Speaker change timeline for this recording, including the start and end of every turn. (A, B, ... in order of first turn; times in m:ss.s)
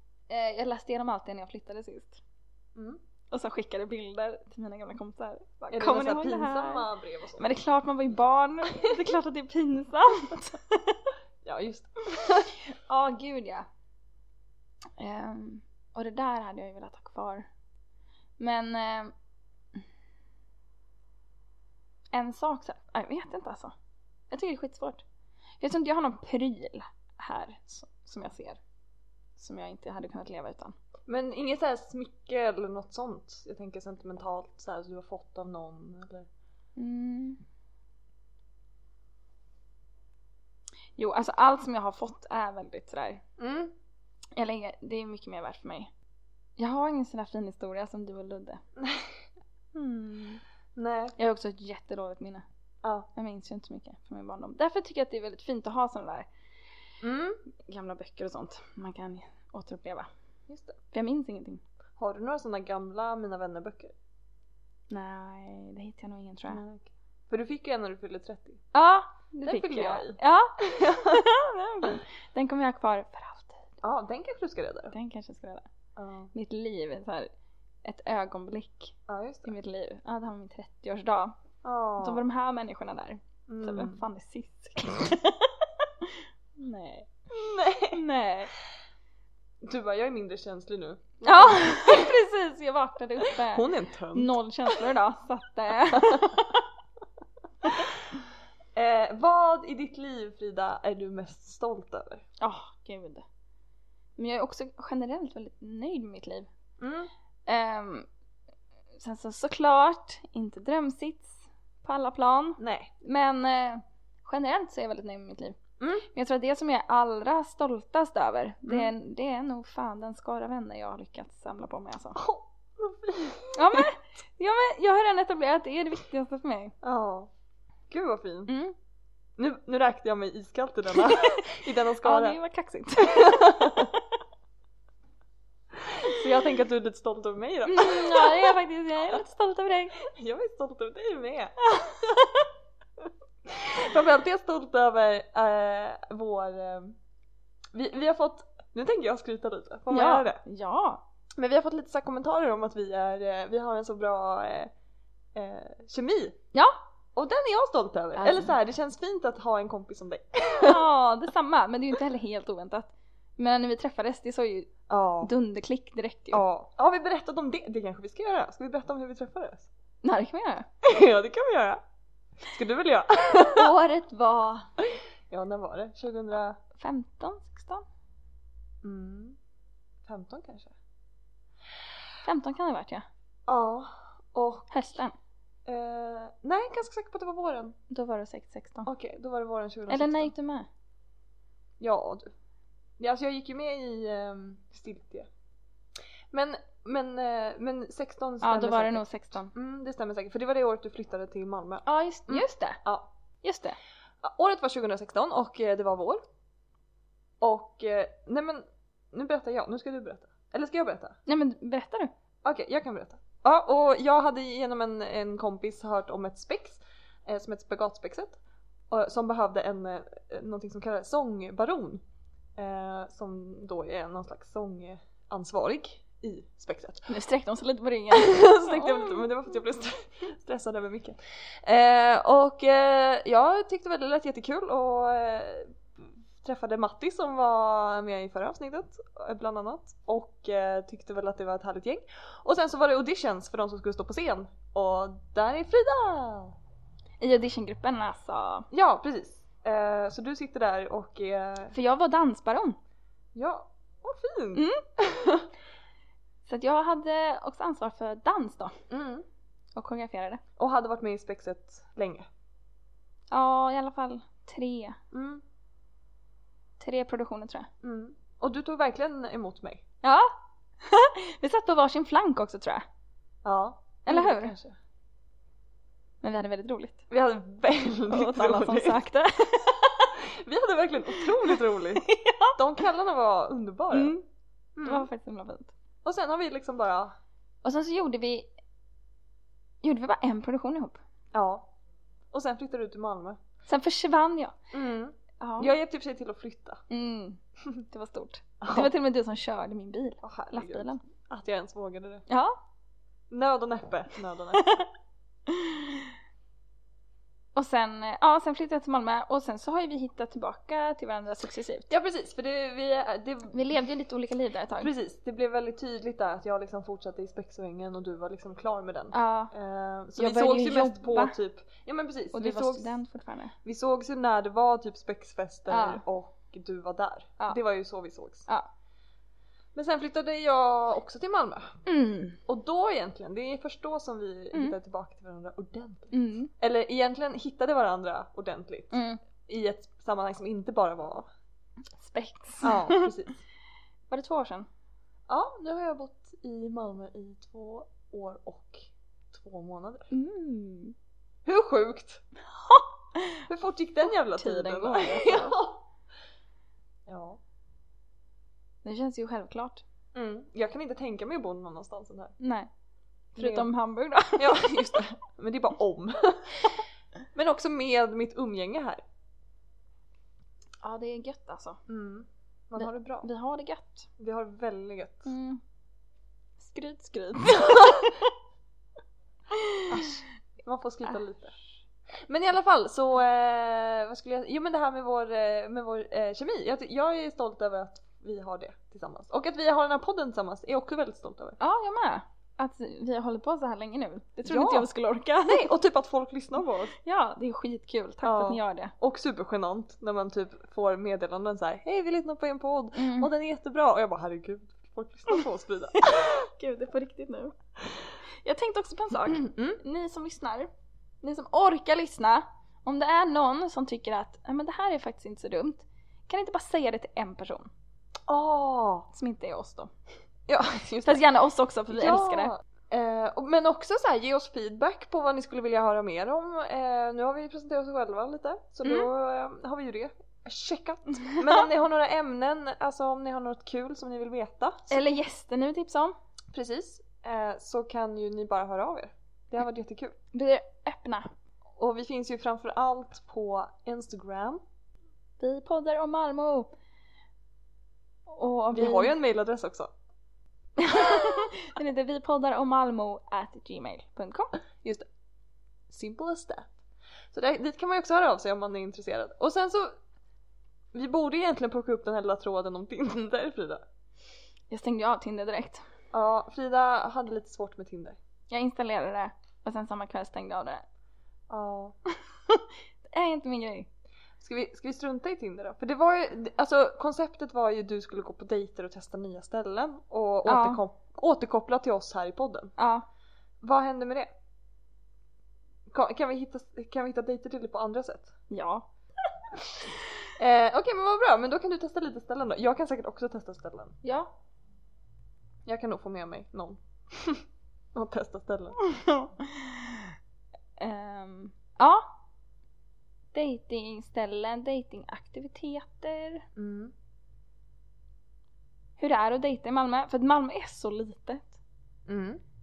0:00.3-0:02.2 A
0:03.3-0:06.8 A
0:05.7-0:07.5 B
0:07.4-0:11.0 A
0:11.4-0:12.5 B
0:12.7-0:13.7 A
0:15.0-0:17.5 A
0:18.4-0:19.1 A
0:22.1-0:23.7 A
0:24.3-0:25.0 A
0:25.6-0:28.6 A
0:29.4-0:30.7 A
0:31.1-0:36.3 B
0:36.8-0:37.4 A
0:41.0-0:43.2 A
0:43.4-0:43.7 B
0:44.3-0:45.9 A
0:46.6-0:48.6 A
0:48.8-0:49.1 B
0:49.8-0:51.1 B
0:51.2-0:52.4 A
0:53.1-0:56.3 A
0:57.0-0:57.4 B
0:57.6-1:00.1 A
1:00.5-1:00.8 B
1:00.9-1:01.6 A
1:02.0-1:03.9 B
1:04.9-1:06.6 A
1:06.5-1:08.6 B
1:08.7-1:13.8 A
1:09.4-1:11.2 B
1:13.8-1:14.9 B
1:14.9-1:15.7 A
1:16.0-1:16.3 B
1:16.3-1:17.3 A
1:17.8-1:21.4 A
1:19.1-1:19.5 B
1:21.6-1:22.2 B
1:22.0-1:27.1 A
1:23.5-1:24.0 B
1:27.3-1:28.0 B
1:27.9-1:28.5 A
1:29.6-1:32.1 B
1:31.2-1:36.6 A
1:33.2-1:34.4 B
1:35.9-1:36.4 B
1:38.7-1:42.2 B
1:42.4-1:43.2 A
1:44.2-1:46.5 A
1:46.8-1:47.1 B
1:47.5-1:48.1 A
1:49.0-1:55.6 A
1:52.6-1:52.9 B
1:55.8-1:56.1 B
1:56.1-2:02.2 A
2:02.2-2:03.8 B
2:03.6-2:06.7 A
2:06.8-2:07.3 B
2:07.9-2:08.5 B
2:08.5-2:08.7 A
2:09.4-2:12.4 B
2:11.0-2:11.3 A
2:12.0-2:14.0 A
2:13.1-2:13.9 B
2:15.8-2:18.6 B
2:17.6-2:20.0 A
2:20.0-2:21.6 B
2:21.7-2:22.5 A
2:23.5-2:27.0 B
2:27.7-2:30.4 B
2:29.9-2:31.0 A
2:31.4-2:34.7 B
2:35.3-2:36.4 B
2:36.5-2:36.8 A
2:37.2-2:40.8 B
2:38.2-2:38.6 A
2:40.6-2:46.4 A
2:44.9-2:45.3 B
2:46.3-2:49.7 B
2:50.0-2:50.7 A
2:50.8-2:51.8 B
2:52.4-2:53.7 B
2:53.5-2:54.7 A
2:55.3-2:56.6 B
2:56.7-2:57.8 A
2:58.8-2:59.4 B
3:00.0-3:00.7 B
3:02.2-3:03.0 A
3:03.5-3:04.7 B
3:04.7-3:05.1 A
3:05.6-3:07.8 B
3:07.9-3:08.9 A
3:08.8-3:10.3 B
3:09.9-3:10.7 A
3:11.8-3:12.3 B
3:13.0-3:15.3 B
3:16.3-3:23.1 B
3:18.4-3:19.5 A
3:21.8-3:22.8 A
3:23.4-3:23.8 A
3:24.2-3:26.2 B
3:27.4-3:31.2 B
3:31.2-3:32.1 A
3:32.4-3:38.4 B
3:38.9-3:42.0 B
3:42.6-3:47.1 B
3:47.1-3:49.3 A
3:48.1-4:06.5 B
4:07.2-4:08.7 A
4:08.7-4:11.7 B
4:11.7-4:12.8 A
4:13.3-4:15.5 B
4:14.5-4:14.8 A
4:16.4-4:18.8 A
4:18.9-4:19.2 B
4:19.7-4:20.4 A
4:20.6-4:22.2 B
4:23.3-4:25.0 A
4:25.1-4:25.4 B
4:26.8-4:27.7 A
4:27.8-4:29.8 B
4:30.0-4:30.3 A
4:30.8-4:32.8 A
4:33.4-4:34.8 B
4:34.0-4:34.5 A
4:36.2-4:37.0 A
4:37.1-4:39.0 B
4:38.1-4:39.9 A
4:40.1-4:44.2 B
4:41.2-4:42.6 A
4:43.9-4:44.2 A
4:44.8-4:45.1 B
4:44.8-4:45.7 A
4:46.0-4:47.1 B
4:47.6-4:48.5 A
4:49.8-4:51.0 A
4:51.3-4:51.7 B
4:52.3-4:53.4 B
4:53.7-4:54.6 A
4:54.7-4:56.8 B
4:55.4-4:55.7 A
4:56.9-5:01.0 A
4:58.6-4:58.9 B
5:00.2-5:02.2 B
5:02.3-5:02.6 A
5:03.3-5:04.8 B
5:05.5-5:06.1 A
5:07.5-5:11.9 A
5:11.9-5:13.6 B
5:13.5-5:14.9 A
5:14.8-5:22.9 B
5:19.1-5:19.5 A
5:20.2-5:21.4 A
5:22.3-5:23.5 A
5:23.6-5:28.5 B
5:25.7-5:26.0 A
5:29.7-5:31.8 B
5:31.8-5:32.4 A
5:32.5-5:41.3 B
5:36.1-5:36.5 A
5:38.9-5:39.2 A
5:42.0-5:43.1 A
5:42.6-5:43.4 B
5:44.1-5:44.7 A
5:45.3-5:50.1 B
5:50.1-5:50.9 A
5:51.4-5:52.2 B
5:52.5-5:53.4 A
5:53.5-5:55.8 B
5:54.1-5:55.6 A
5:57.1-5:57.4 B
5:58.8-5:59.8 A
6:00.1-6:02.3 B
6:02.4-6:02.7 A
6:03.3-6:05.0 A
6:03.4-6:03.7 B
6:04.4-6:06.8 B
6:07.3-6:09.0 B
6:10.8-6:11.8 A
6:11.9-6:13.3 B
6:12.8-6:14.1 A
6:14.2-6:15.3 B
6:15.2-6:15.6 A
6:16.6-6:18.3 A
6:19.5-6:20.0 A
6:19.9-6:21.6 B
6:22.2-6:31.6 B
6:31.6-6:35.7 A
6:34.4-6:34.9 B
6:35.4-6:37.0 B
6:37.0-6:38.9 A
6:38.2-6:46.1 B
6:42.9-6:43.3 A
6:46.0-6:47.6 A
6:48.4-6:50.7 A
6:49.3-6:49.8 B
6:51.2-6:57.7 A
6:58.3-6:59.1 B
6:59.1-6:59.9 A
7:00.5-7:01.2 B
7:01.0-7:02.5 A
7:01.9-7:15.0 B
7:08.8-7:09.1 A
7:11.2-7:11.6 A
7:14.9-7:16.2 A
7:16.5-7:20.2 B
7:20.3-7:21.3 A
7:21.8-7:24.6 B
7:25.4-7:26.7 A
7:28.3-7:29.1 A
7:28.7-7:29.9 B
7:30.8-7:34.5 A
7:35.9-7:36.7 B
7:37.3-7:39.9 B
7:40.9-7:43.8 B
7:44.7-7:45.8 A
7:46.1-7:48.2 B
7:48.5-7:50.8 A
7:51.5-7:51.9 B
7:52.4-7:53.9 A
7:54.4-8:02.7 B
8:00.4-8:00.8 A
8:02.8-8:03.1 A
8:03.6-8:04.3 B
8:05.9-8:08.3 B
8:08.5-8:08.9 A
8:10.4-8:14.0 B
8:14.0-8:14.3 A
8:15.6-8:17.4 B
8:17.9-8:18.8 B
8:18.8-8:20.1 A
8:20.8-8:22.1 A
8:23.3-8:26.4 A
8:26.6-8:26.9 B
8:29.0-8:31.6 A
8:32.1-8:32.4 B